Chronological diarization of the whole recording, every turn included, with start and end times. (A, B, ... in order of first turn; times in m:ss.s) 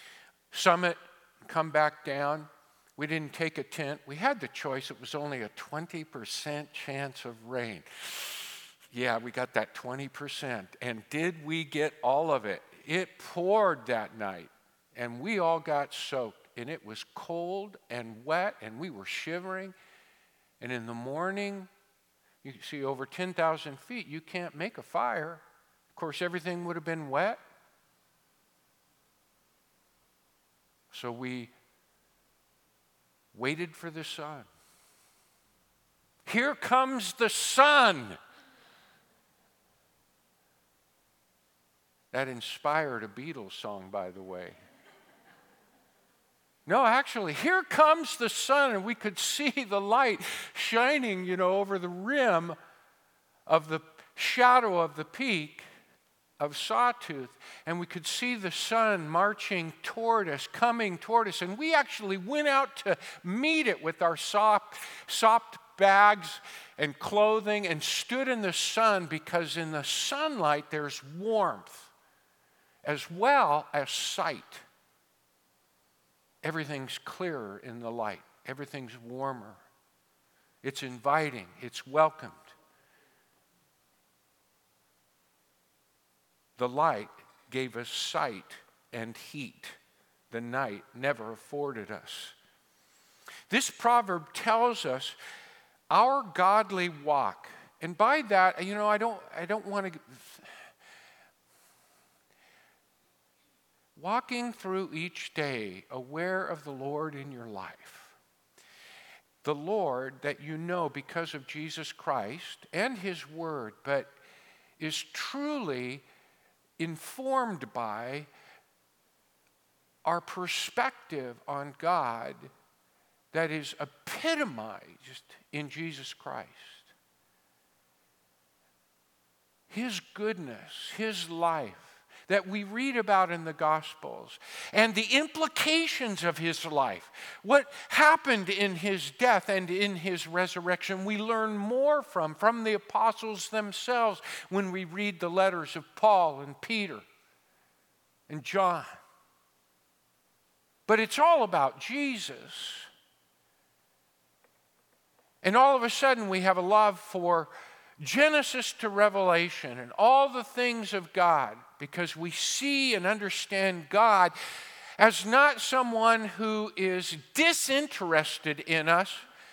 0:00.5-0:19.7 A
0:20.6-0:21.7 A
0:22.4-0:25.4 A
0:25.9-0:27.4 A
0:30.9-0:31.5 A
0:33.3-0:34.5 A
0:36.2-0:38.2 A
0:42.1-0:44.6 A
0:46.7-0:52.6 A
0:53.5-0:55.6 A
0:56.4-1:11.9 A
1:12.8-1:14.6 A
1:16.4-1:19.6 A
1:20.6-1:22.5 A
1:26.6-1:29.8 A
1:30.3-1:32.4 A
1:33.5-1:35.2 A
1:35.9-1:40.5 A
1:44.0-1:48.1 A
1:49.4-1:54.1 A
1:54.8-1:56.0 A
1:56.8-1:58.3 A
2:00.0-2:02.5 A
2:03.3-2:06.9 A
2:09.7-2:27.0 A
2:28.3-2:28.9 A
2:30.9-2:32.9 A
2:35.4-2:44.3 A
2:45.0-2:49.2 A